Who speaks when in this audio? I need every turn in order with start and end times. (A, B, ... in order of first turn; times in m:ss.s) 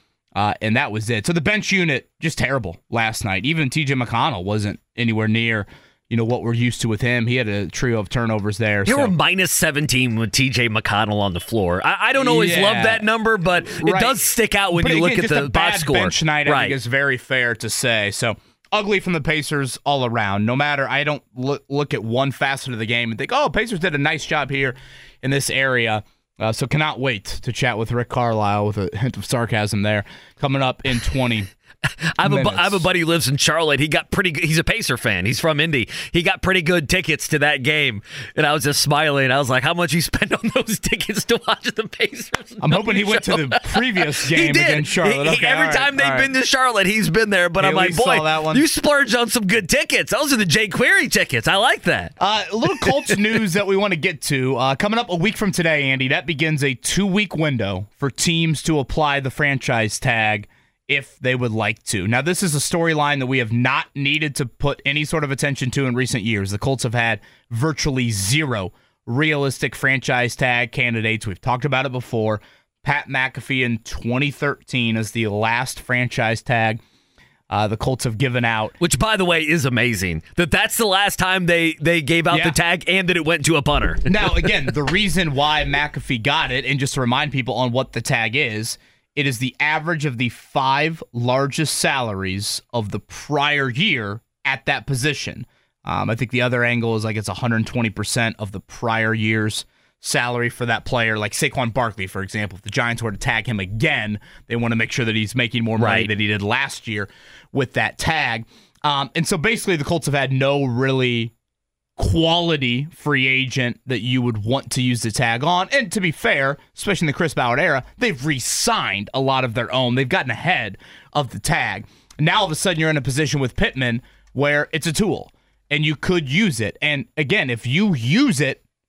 0:00.4-0:09.1 A
0:08.9-0:16.8 B
0:12.1-0:13.1 A
0:13.6-0:14.2 A
0:14.7-0:31.5 A
0:32.2-0:52.1 B
0:32.2-0:32.9 A
0:42.6-0:46.3 A
0:47.6-0:48.6 A
0:52.2-1:16.8 A
0:52.7-0:53.2 B
1:17.5-1:18.8 A
1:18.8-1:24.5 B
1:22.3-1:22.6 A
1:24.1-1:51.3 A
1:45.8-1:46.1 B
1:52.0-2:08.6 A